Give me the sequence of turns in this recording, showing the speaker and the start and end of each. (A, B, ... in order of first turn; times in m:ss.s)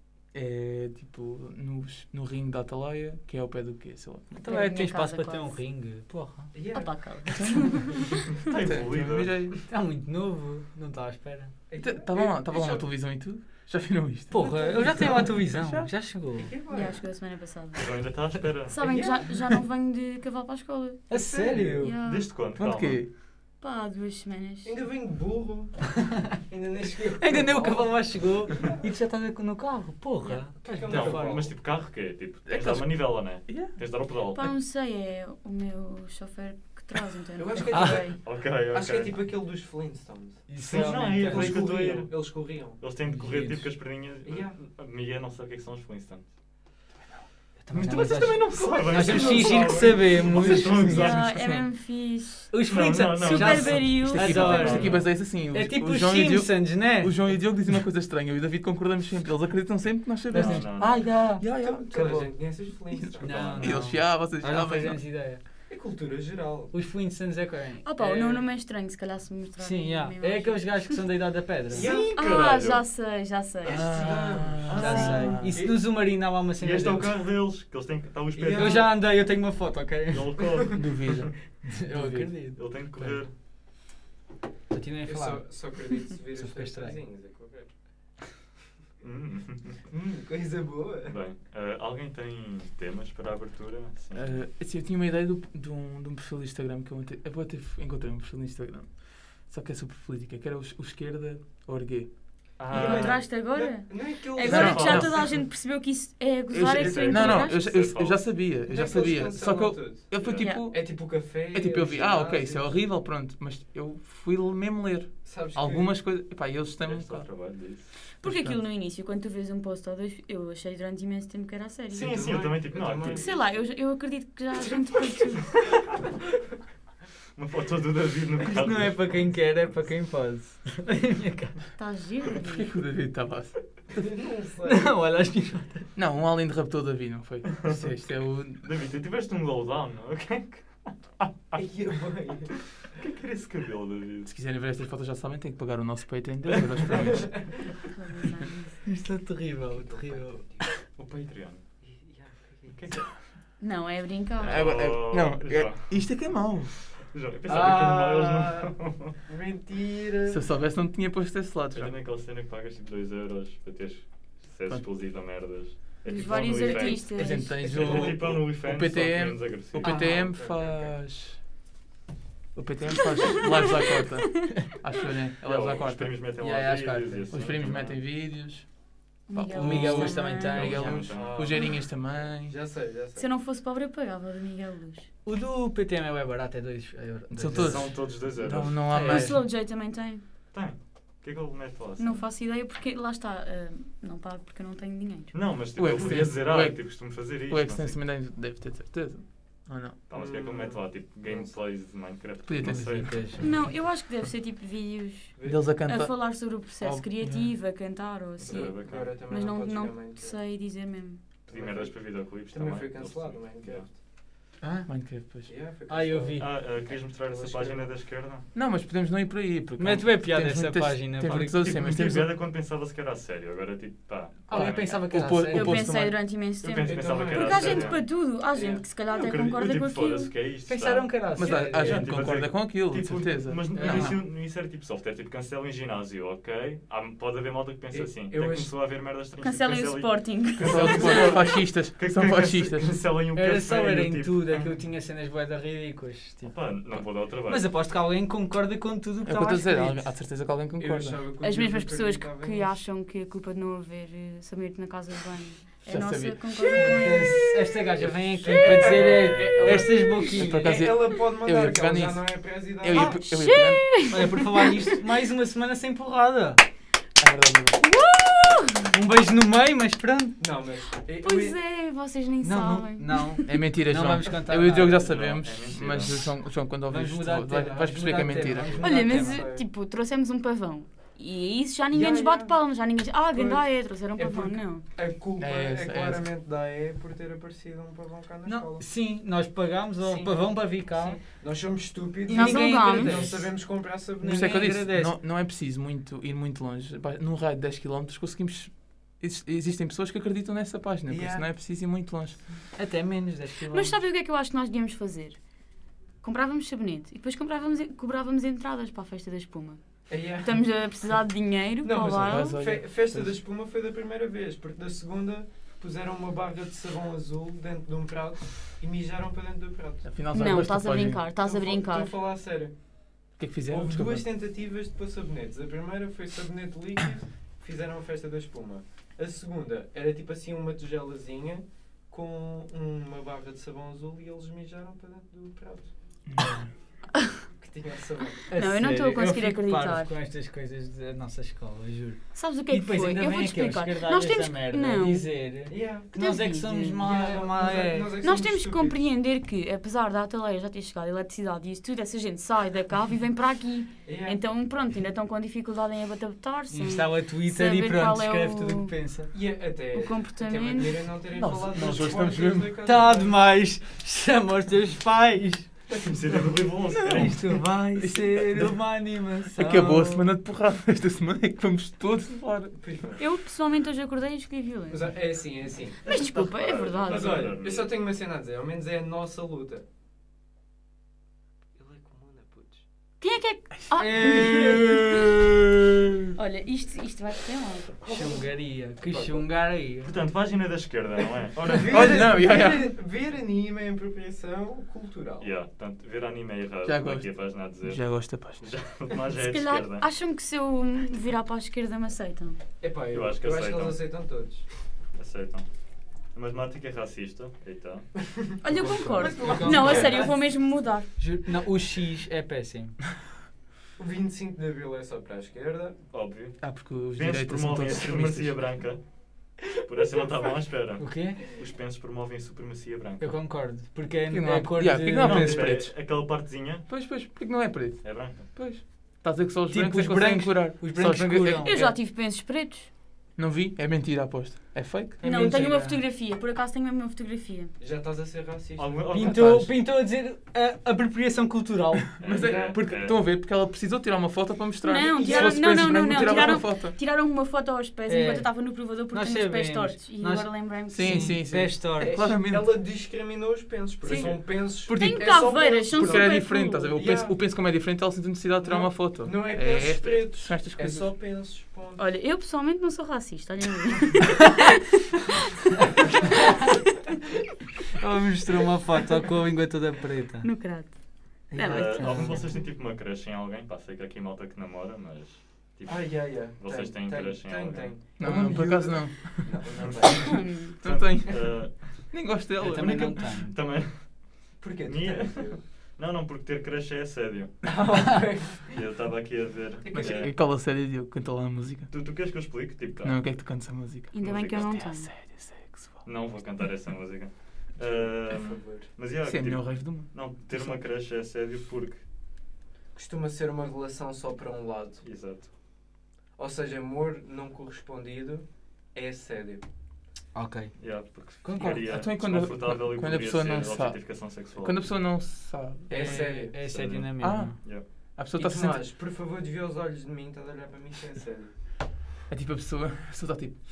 0:00.3-0:04.5 A
0:04.4-0:06.5 B
0:04.4-0:05.6 C
0:06.5-0:07.2 D
0:06.7-0:08.1 C
0:07.3-0:09.6 A
0:08.4-0:09.5 E
0:09.7-0:11.5 B
0:11.7-0:12.9 D
0:11.8-0:15.9 A
0:14.3-0:16.5 B
0:14.4-0:15.3 D
0:16.4-0:17.0 D
0:16.7-0:17.9 C
0:17.8-0:18.8 E
0:18.7-0:21.0 C
0:18.8-0:19.3 D
0:21.1-0:22.0 B
0:21.1-0:21.9 D
0:21.8-0:22.3 C
0:22.0-0:23.0 E
0:22.6-0:23.1 A
0:23.6-0:24.7 C
0:24.6-0:25.8 D
0:26.4-0:28.8 D
0:27.2-0:31.4 B
0:30.6-0:31.6 D
0:30.8-0:34.5 E
0:32.5-0:33.8 A
0:34.3-0:38.2 C
0:37.4-0:42.9 D
0:37.7-0:38.0 B
0:38.1-0:39.3 E
0:40.5-0:41.6 B
0:40.6-0:46.3 E
0:43.0-0:43.8 B
0:44.2-0:44.6 D
0:47.6-0:51.1 B
0:47.7-0:51.2 E
0:47.9-0:49.3 A
0:48.8-0:50.7 D
0:50.3-0:51.7 A
0:50.9-0:52.5 C
0:52.5-0:57.1 B
0:52.6-0:55.1 E
0:53.2-0:54.8 C
0:53.9-1:00.8 A
1:00.3-1:01.1 E
1:00.3-1:01.4 B
1:01.3-1:05.0 A
1:01.6-1:03.6 D
1:03.2-1:05.4 B
1:03.3-1:03.9 E
1:05.7-1:06.8 D
1:06.7-1:08.4 B
1:07.8-1:11.0 C
1:09.6-1:11.9 B
1:11.7-1:12.2 D
1:11.7-1:15.4 C
1:11.8-1:12.8 E
1:13.6-1:14.8 D
1:13.6-1:15.6 A
1:14.7-1:15.4 E
1:14.7-1:17.2 B
1:15.5-1:15.8 D
1:16.5-1:19.0 E
1:18.4-1:18.9 D
1:18.5-1:20.4 B
1:20.1-1:21.3 E
1:20.5-1:20.8 D
1:20.8-1:22.3 A
1:21.6-1:23.2 B
1:22.6-1:23.3 E
1:24.7-1:27.0 B
1:25.0-1:27.7 D
1:29.0-1:29.9 E
1:29.9-1:31.2 D
1:31.1-1:34.4 E
1:34.1-1:42.6 A
1:42.6-1:43.3 E
1:42.7-1:45.0 D
1:42.7-1:47.6 C
1:44.4-1:45.4 E
1:44.4-1:45.3 A
1:46.5-1:57.3 A
1:46.7-1:48.4 E
1:48.6-1:52.8 D
1:50.2-1:50.5 E
1:55.2-1:56.0 D
1:56.8-1:57.9 E
1:58.2-1:58.6 A
1:58.2-2:05.6 C
2:01.9-2:03.4 E
2:01.9-2:03.6 D
2:07.4-2:09.8 E
2:08.4-2:11.6 B
2:11.8-2:12.7 C
2:12.4-2:14.0 A
2:13.9-2:14.8 D
2:14.6-2:15.9 B
2:16.0-2:18.6 A
2:18.6-2:21.6 E
2:21.6-2:22.8 D
2:23.0-2:24.3 E
2:24.3-2:27.5 A
2:27.0-2:27.7 D
2:27.8-2:28.8 C
2:28.8-2:30.4 B
2:29.6-2:30.7 D
2:31.0-2:31.6 E
2:31.8-2:32.8 D
2:32.7-2:33.2 E
2:33.6-2:34.6 C
2:34.4-2:39.2 E
2:34.4-2:36.8 A
2:37.5-2:38.7 D
2:37.5-2:37.9 B
2:39.3-2:40.4 D
2:40.3-2:41.9 A
2:41.7-2:50.1 E
2:46.1-2:47.5 C
2:47.0-2:51.4 A
2:47.6-2:48.2 D
2:49.8-2:51.0 D
2:52.6-2:56.1 A
2:55.4-2:58.0 E
2:56.4-2:57.4 B
2:57.3-2:58.7 A
2:59.3-3:02.6 A
2:59.3-3:00.6 C
2:59.6-3:01.1 B
3:00.4-3:01.4 E
3:01.1-3:01.8 D
3:02.4-3:03.3 D
3:03.2-3:05.1 C
3:05.3-3:08.0 B
3:07.3-3:09.4 A
3:07.6-3:08.8 E
3:08.9-3:09.4 B
3:09.0-3:10.2 C
3:10.5-3:12.2 E
3:12.0-3:15.3 C
3:15.3-3:18.0 E
3:15.8-3:20.0 A
3:20.1-3:23.5 E
3:20.1-3:21.6 D
3:22.4-3:23.2 A
3:22.6-3:23.5 B
3:23.4-3:31.2 C
3:25.4-3:25.6 D
3:25.4-3:27.6 A
3:28.4-3:29.2 E
3:28.4-3:30.4 D
3:31.5-3:33.9 E
3:31.5-3:34.0 D
3:34.6-3:34.9 B
3:34.8-3:35.5 A
3:35.4-3:37.9 D
3:35.9-3:37.6 B
3:36.4-3:38.5 E
3:38.5-3:42.3 A
3:39.8-3:42.0 B
3:41.6-3:45.2 E
3:44.5-3:45.8 B
3:45.1-3:46.2 A
3:45.5-3:50.3 C
3:46.6-3:48.0 E
3:46.8-3:48.8 D
3:49.1-4:04.8 E
3:50.7-3:52.1 B
3:51.4-3:54.2 A
3:53.7-3:54.2 B
3:57.9-3:58.8 D
3:59.4-4:01.4 C
4:00.6-4:03.0 A
4:03.3-4:10.1 B
4:06.4-4:07.7 E
4:09.2-4:11.2 A
4:10.8-4:12.7 D
4:11.4-4:17.5 C
4:15.9-4:16.4 A
4:16.8-4:20.8 B
4:16.8-4:19.9 D
4:18.8-4:19.8 E
4:19.6-4:24.1 A
4:20.4-4:23.1 D
4:22.9-4:24.9 C
4:24.1-4:26.6 B
4:27.2-4:27.8 A
4:27.8-4:28.9 C
4:28.9-4:30.4 B
4:30.4-4:31.6 D
4:31.2-4:33.4 C
4:32.4-4:35.0 B
4:33.4-4:38.8 A
4:34.9-4:36.4 E
4:36.9-4:39.4 B
4:37.6-4:39.7 D
4:38.8-4:44.8 C
4:41.9-4:42.6 D
4:43.3-4:48.8 D
4:45.4-4:46.2 A
4:48.4-4:51.2 B
4:50.0-4:54.7 D
4:52.3-4:53.3 C
4:52.3-4:53.6 B
4:54.2-4:55.2 B
4:54.2-5:02.4 A
5:01.1-5:01.5 D
5:02.8-5:04.0 B
5:03.7-5:05.4 C
5:06.2-5:12.6 C
5:10.1-5:10.6 D
5:11.8-5:20.1 D
5:12.2-5:13.4 A
5:20.0-5:21.2 A
5:20.3-5:22.1 C
5:21.4-5:22.8 D
5:23.4-5:24.3 A
5:23.7-5:35.9 D
5:36.3-5:36.7 A
5:37.6-5:38.5 D
5:38.5-5:48.2 B
5:38.5-5:40.1 C
5:42.3-5:47.0 C
5:45.7-5:46.2 D
5:47.0-5:49.0 D
5:48.2-5:58.9 C
5:54.0-5:54.4 D
5:56.7-5:59.3 B
5:59.3-6:03.4 D
5:59.9-6:01.0 C
6:01.3-6:02.8 A
6:02.8-6:05.7 B
6:05.9-6:06.4 D
6:06.0-6:07.6 E
6:06.9-6:10.3 B
6:08.0-6:08.8 A
6:09.6-6:12.8 A
6:12.8-6:13.2 D
6:13.2-6:15.3 C
6:14.9-6:16.0 D
6:16.0-6:17.5 C
6:16.0-6:18.0 E
6:17.1-6:19.8 D
6:21.8-6:22.8 D
6:23.2-6:25.2 C
6:23.9-6:25.5 B
6:26.4-6:28.0 C
6:28.0-6:30.1 B
6:28.1-6:28.5 D
6:29.1-6:29.5 D
6:30.0-6:32.3 E
6:31.8-6:35.5 D
6:31.9-6:32.9 A
6:35.4-6:40.1 E
6:36.8-6:38.6 A
6:39.3-6:42.6 C
6:42.8-6:44.7 D
6:43.1-6:44.1 E
6:45.2-6:45.7 E
6:46.3-6:48.1 E
6:48.6-6:51.1 C
6:48.7-6:50.6 B
6:49.2-6:50.3 D
6:51.1-6:53.0 B
6:54.0-6:56.0 D
6:56.1-6:56.6 E
6:56.6-6:58.6 A
6:57.1-6:59.0 E
6:59.6-7:03.4 E
7:01.0-7:01.4 B
7:03.2-7:05.8 B
7:04.3-7:05.9 A
7:05.2-7:06.9 E
7:06.9-7:11.7 A
7:08.0-7:08.6 E
7:09.7-7:12.0 B
7:11.6-7:12.9 C
7:13.4-7:15.2 A
7:15.2-7:16.0 B
7:15.2-7:17.7 C
7:17.8-7:19.1 D
7:18.8-7:19.7 E
7:19.1-7:22.3 B
7:19.2-7:19.7 A
7:22.2-7:23.2 E
7:22.2-7:27.0 A
7:22.3-7:22.8 D
7:24.8-7:31.4 C
7:25.2-7:26.2 D
7:28.1-7:32.1 B
7:30.8-7:32.8 A
7:32.0-7:37.4 D
7:34.0-7:34.4 C
7:34.1-7:34.7 E
7:34.9-7:36.9 C
7:34.9-7:35.2 B
7:35.9-7:41.1 A
7:38.6-7:42.0 D
7:40.0-7:40.2 E
7:42.0-7:44.6 C
7:47.9-7:50.5 B
7:50.4-7:52.6 C
7:51.5-7:52.4 B
7:51.7-7:58.0 E
7:55.9-8:00.5 D
7:58.2-8:03.2 A
7:59.7-8:08.1 E
8:00.2-8:00.7 C
8:02.6-8:03.6 B
8:04.6-8:05.6 D
8:07.6-8:08.8 D
8:08.7-8:10.3 E
8:09.8-8:10.2 D
8:10.0-8:11.9 A
8:11.9-8:13.4 E
8:13.0-8:16.0 A
8:14.1-8:15.1 C
8:14.2-8:14.8 E
8:16.0-8:22.0 E
8:17.8-8:18.9 D
8:19.2-8:20.8 A
8:23.0-8:25.0 D
8:25.0-8:25.5 E
8:26.4-8:29.6 D
8:30.3-8:30.7 B
8:30.8-8:34.9 E
8:31.4-8:31.7 B
8:31.5-8:36.0 A
8:35.9-8:37.6 B
8:35.9-8:36.7 D
8:36.1-8:37.9 E
8:37.2-8:38.8 A
8:38.4-8:41.5 D
8:42.3-8:43.6 A